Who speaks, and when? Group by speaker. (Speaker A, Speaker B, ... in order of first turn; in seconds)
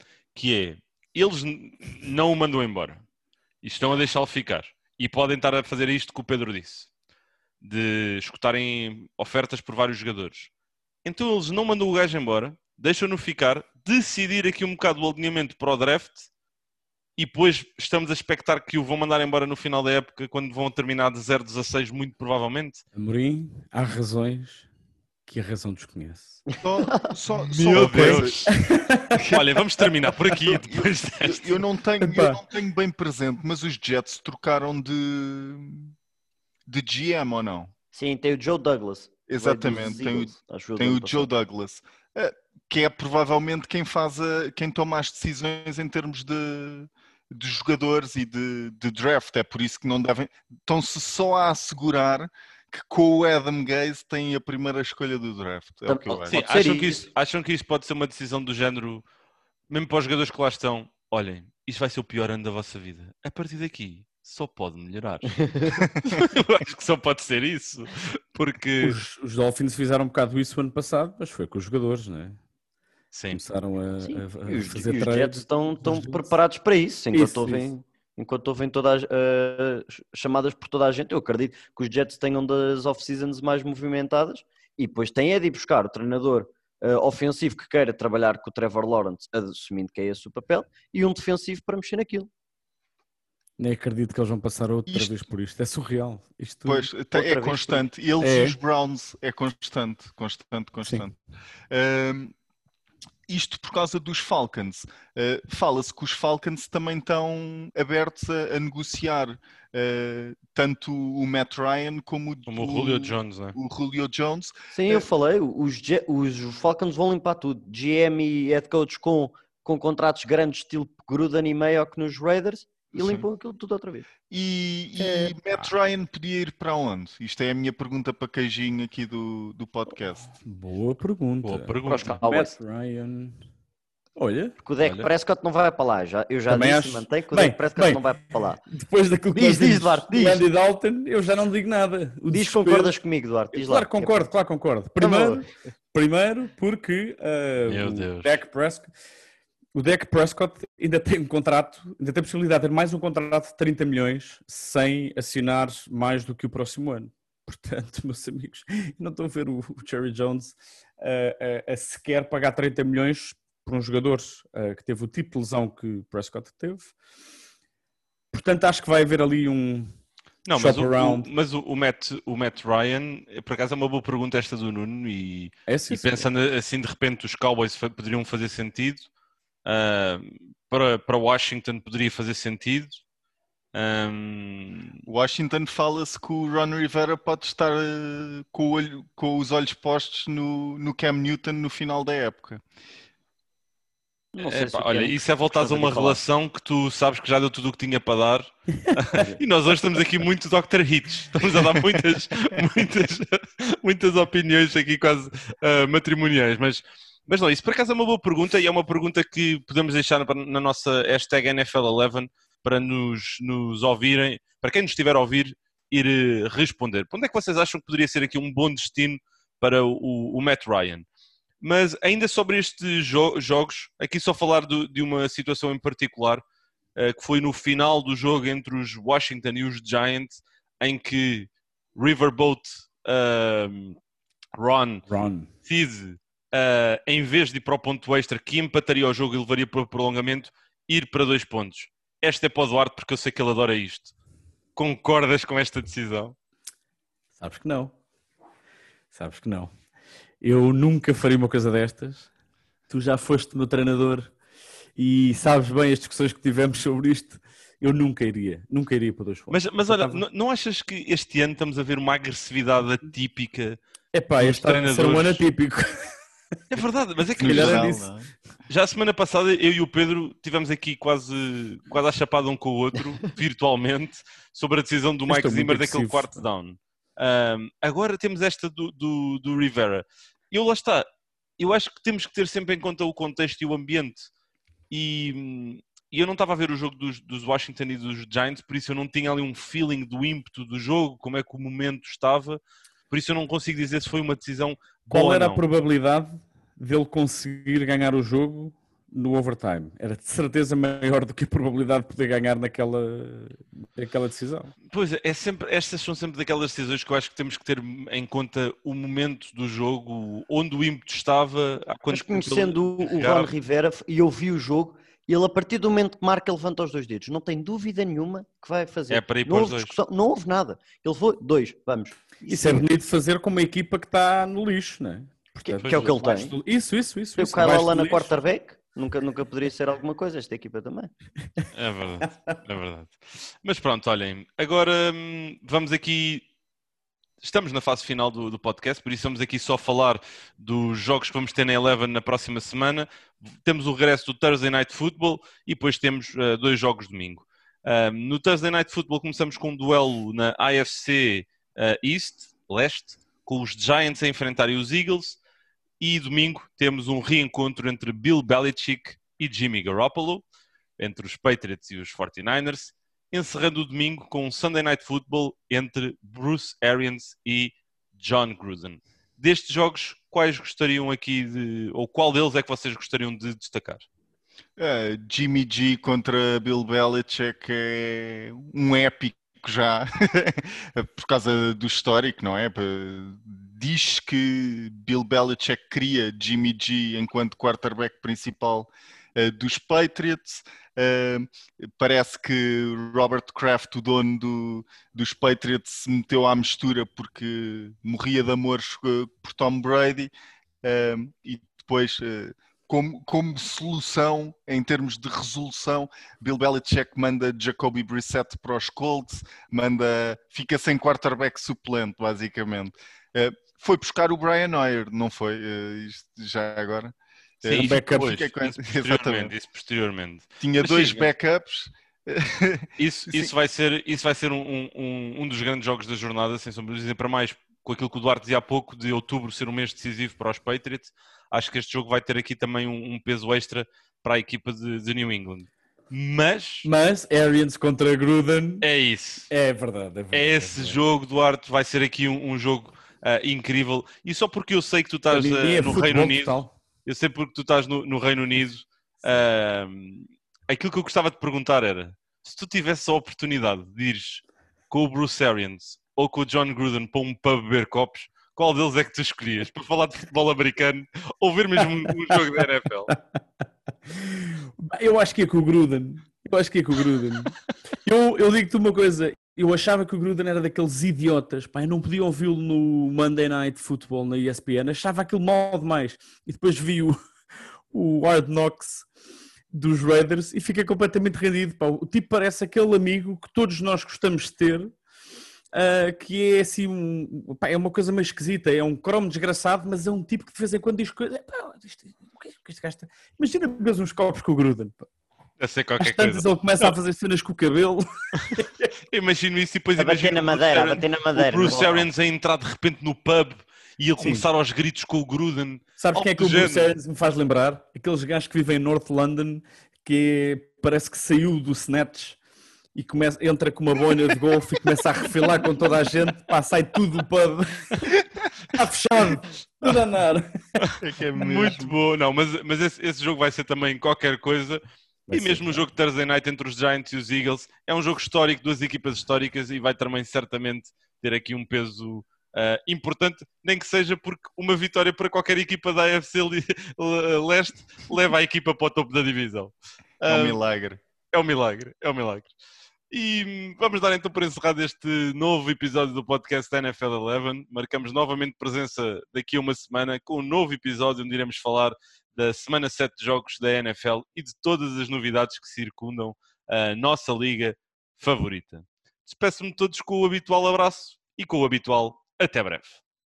Speaker A: 0.3-3.0, 3.6-6.9, 7.6-10.5, 11.0-16.3, 17.2-22.8, 27.5-28.5, 29.1-31.6, 56.3-59.0, 59.7-69.0, 73.1-73.4, 112.5-113.5, 131.4-132.5, 134.8-135.1, 147.6-148.4, 170.5-179.1, 179.6-183.0, 183.7-185.0, 194.4-221.0, 221.6-226.4, 226.9-234.0, 234.5-235.1, 235.6-244.1, 244.8-246.3, 259.5-263.8, 264.4-265.4, 266.7-267.9, 268.7-281.1, 281.6-284.3, 284.9-295.6, 304.9-313.5, 319.1-319.9, 325.8-326.1, 331.7-336.5, 337.4-355.4, 356.0-360.4, 361.0-374.0, 417.6-421.3, 423.0-436.9, 438.8-439.5, 440.3-463.1, 495.6-496.9, 499.1-506.9, 520.8-540.6, 541.3-542.5, 543.1-563.0
Speaker B: 22.9-24.7, 25.3-26.4, 27.8-29.2, 32.0-32.4, 68.8-72.4, 73.3-76.3, 77.1-77.7, 93.6-96.9, 98.2-98.6, 130.3-133.4, 134.2-134.5, 136.5-138.0, 138.7-142.9, 143.5-148.9, 149.7-166.9, 168.3-169.9, 170.5-171.3, 175.7-176.3, 194.4-195.0, 195.6-196.2, 198.9-199.4, 235.1-235.5, 247.4-247.9, 249.1-249.7, 250.4-252.3, 252.9-254.3, 255.0-260.2, 264.1-266.2, 267.4-268.1, 275.3-276.4, 295.1-304.7, 322.5-328.4, 436.8-438.8, 439.5-441.0, 445.3-446.7, 464.1-467.5, 468.1-477.2, 477.9-479.1, 479.7-484.9, 485.7-495.1, 496.0-498.9, 504.2-504.4, 506.0-512.4, 512.9-518.1, 518.7-520.5, 525.3-525.9
Speaker C: 26.5-27.1, 37.9-41.3, 55.9-57.1, 65.4-65.8, 74.0-92.3, 97.1-97.9, 114.7-124.1, 125.0-125.3, 131.8-132.5, 134.6-138.6, 139.3-140.4, 142.3-144.3, 145.0-145.4, 194.4-196.1, 312.1-322.9, 325.6-326.5, 327.4-331.1, 500.0-502.1
Speaker D: 26.6-28.5, 30.6-35.9, 36.6-37.7, 39.3-56.3, 94.9-95.1, 96.7-101.1, 101.7-102.3, 103.3-115.0, 123.0-123.2, 124.3-130.3, 185.0-192.6, 267.4-268.3, 374.8-400.3, 400.8-419.5, 420.6-423.5, 521.0-521.9, 540.3-541.0